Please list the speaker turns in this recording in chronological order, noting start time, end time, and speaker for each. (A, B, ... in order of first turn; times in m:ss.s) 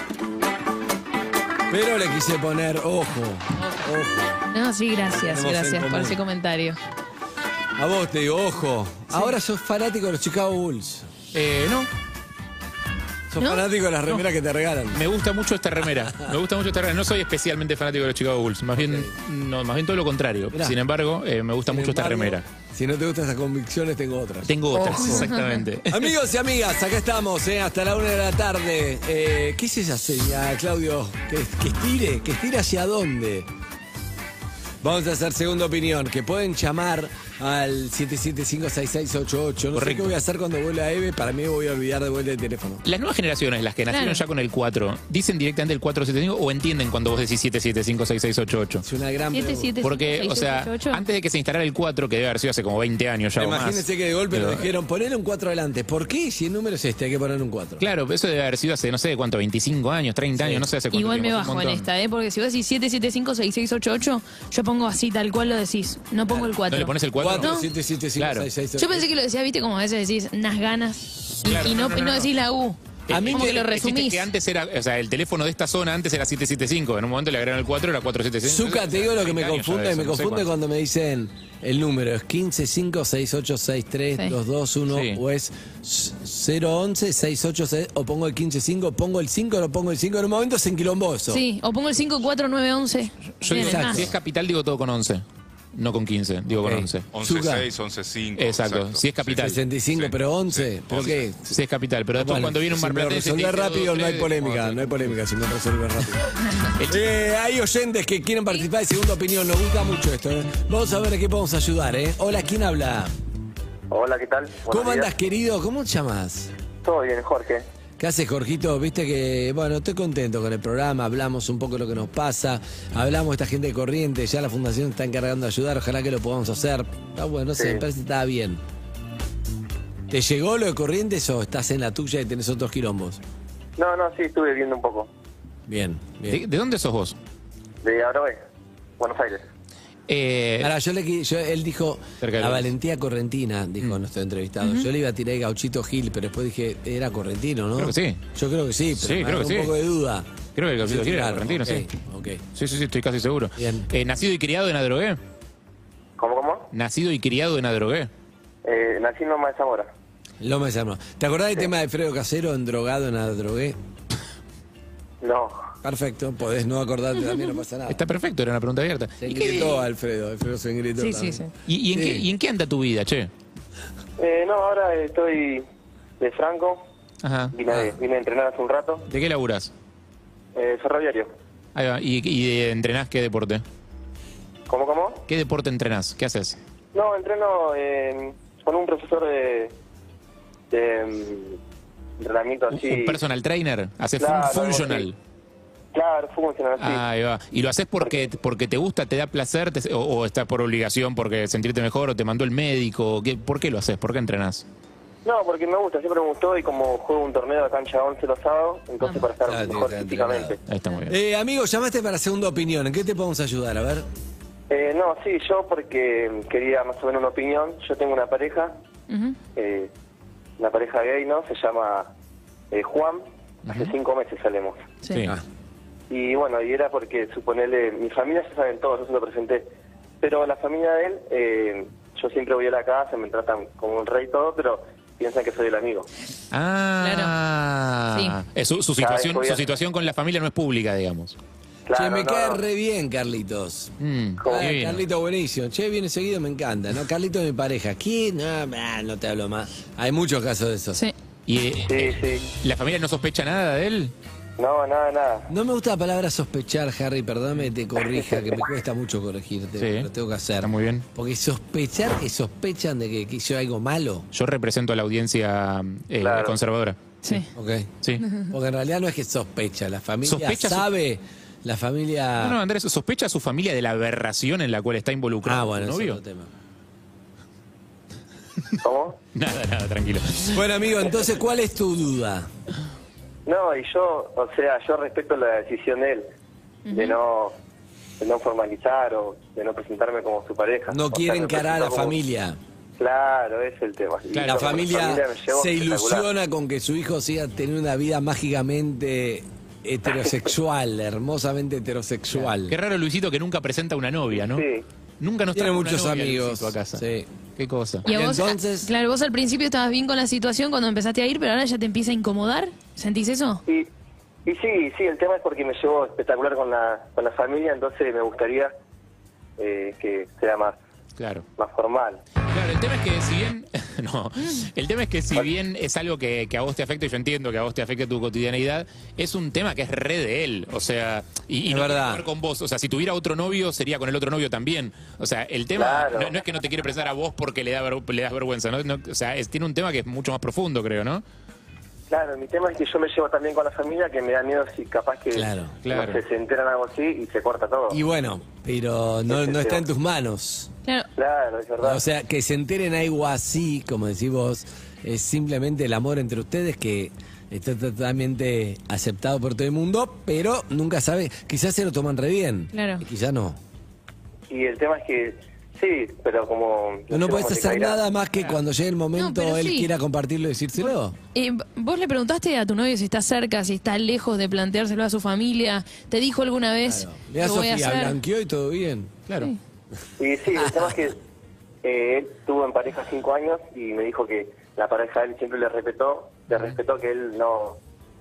0:01.7-0:04.4 A
0:04.5-0:06.8 B
0:05.1-0:06.2 A
0:07.8-0:11.1 A
0:11.3-0:11.9 C
0:13.3-0:15.0 A
0:13.4-0:13.6 B
0:14.9-0:22.4 C
0:18.8-0:19.1 A
0:21.6-0:25.3 A
0:24.4-0:26.1 C
0:25.0-0:25.6 B
0:25.9-0:33.5 A
0:34.8-0:42.8 A
0:39.7-0:40.1 C
0:42.8-0:48.8 C
0:43.9-0:44.2 B
0:48.8-0:49.7 A
0:49.3-0:51.0 B
0:49.8-0:54.6 C
0:53.4-0:57.8 A
0:57.8-1:01.9 C
1:00.3-1:00.7 A
1:00.9-1:07.7 B
1:06.7-1:07.6 C
1:07.2-1:09.1 A
1:08.2-1:08.5 C
1:08.8-1:12.8 B
1:11.4-1:12.3 C
1:13.1-1:20.5 C
1:13.1-1:13.6 A
1:13.3-1:14.3 B
1:18.4-1:31.4 A
1:24.9-1:25.2 C
1:31.3-1:34.0 B
1:33.4-1:35.2 C
1:33.5-1:34.2 A
1:35.7-1:37.1 C
1:36.5-1:37.7 A
1:37.1-1:41.1 D
1:38.4-1:39.6 C
1:39.3-1:41.6 A
1:41.5-1:45.1 C
1:42.1-1:46.3 A
1:46.8-1:47.1 C
1:46.9-1:53.1 A
1:53.9-1:55.1 E
1:54.7-1:56.5 A
1:56.8-1:57.6 E
1:58.0-2:08.6 A
2:07.6-2:07.8 E
2:10.1-2:13.2 A
2:13.8-2:15.1 E
2:15.7-2:16.4 A
2:16.3-2:17.2 C
2:17.8-2:18.4 E
2:19.0-2:19.4 E
2:20.1-2:20.7 C
2:20.6-2:30.3 A
2:22.2-2:22.7 C
2:24.6-2:24.9 B
2:27.8-2:28.2 C
2:29.0-2:29.7 C
2:30.6-2:31.9 C
2:30.8-2:32.4 A
2:32.6-2:35.2 C
2:33.6-2:33.9 A
2:36.2-2:36.7 E
2:36.7-2:38.1 C
2:38.6-2:39.9 E
2:40.4-2:43.8 A
2:45.2-2:45.5 E
2:45.8-2:48.0 A
2:47.9-2:49.8 C
2:49.2-2:52.2 A
2:51.0-2:51.5 B
2:51.6-2:53.3 C
2:54.2-2:55.6 E
2:56.2-2:56.8 E
2:57.2-2:57.6 C
2:57.5-2:59.0 E
2:59.1-2:59.7 C
3:00.5-3:01.3 E
3:01.7-3:03.6 C
3:04.7-3:05.2 E
3:05.3-3:06.6 C
3:06.9-3:09.7 E
3:10.7-3:11.6 E
3:12.2-3:13.2 E
3:12.7-3:15.2 C
3:14.2-3:15.1 E
3:15.9-3:17.0 E
3:16.8-3:24.6 C
3:18.0-3:18.3 E
3:25.2-3:30.6 E
3:29.4-3:30.6 A
3:30.7-3:31.2 C
3:31.1-3:34.1 A
3:34.7-3:38.7 E
3:39.1-3:39.4 B
3:39.6-3:39.9 E
3:40.6-3:42.1 E
3:42.7-3:44.8 E
3:43.6-3:43.9 C
3:45.0-3:45.3 B
3:46.1-3:49.7 E
3:50.2-3:56.1 E
3:56.5-4:01.4 C
3:57.0-3:57.3 B
3:58.1-3:58.4 B
3:59.0-3:59.6 E
4:01.8-4:02.6 E
4:01.9-4:03.9 A
4:04.0-4:05.0 C
4:04.4-4:04.7 E
4:04.4-4:11.0 A
4:11.5-4:14.1 C
4:11.8-4:12.4 E
4:14.6-4:15.5 E
4:15.5-4:24.3 A
4:19.8-4:20.1 C
4:20.6-4:21.0 C
4:24.3-4:27.4 C
4:26.2-4:26.5 E
4:27.5-4:32.6 A
4:28.2-4:28.5 B
4:30.2-4:30.8 C
4:32.4-4:36.2 C
4:35.4-4:36.5 A
4:38.8-4:39.2 E
4:39.3-4:40.6 C
4:40.5-4:42.5 A
4:43.4-4:46.3 E
4:46.8-4:47.2 B
4:46.9-4:47.5 E
4:48.2-4:52.1 E
4:50.9-4:52.6 A
4:53.0-4:56.2 E
4:54.3-4:54.9 C
4:54.4-5:02.8 A
5:02.3-5:04.6 C
5:04.4-5:04.8 E
5:05.2-5:07.0 C
5:05.5-5:07.3 A
5:07.6-5:08.0 C
5:08.0-5:08.9 A
5:08.0-5:13.6 B
5:14.4-5:18.7 E
5:19.6-5:20.8 E
5:21.2-5:21.4 C
5:21.6-5:22.2 E
5:22.5-5:41.2 C
5:31.6-5:32.3 A
5:35.7-5:36.3 E
5:42.1-5:48.0 E
5:45.3-5:45.8 A
5:45.8-5:46.2 C
5:47.9-5:50.7 A
5:49.3-5:49.8 E
5:51.2-5:52.0 E
5:51.8-6:03.6 A
6:02.7-6:03.0 B
6:04.5-6:08.0 E
6:07.1-6:11.2 A
6:09.2-6:09.9 B
6:11.3-6:18.2 B
6:16.8-6:19.2 A
6:19.3-6:19.5 C
6:20.2-6:21.2 E
6:21.8-6:27.8 E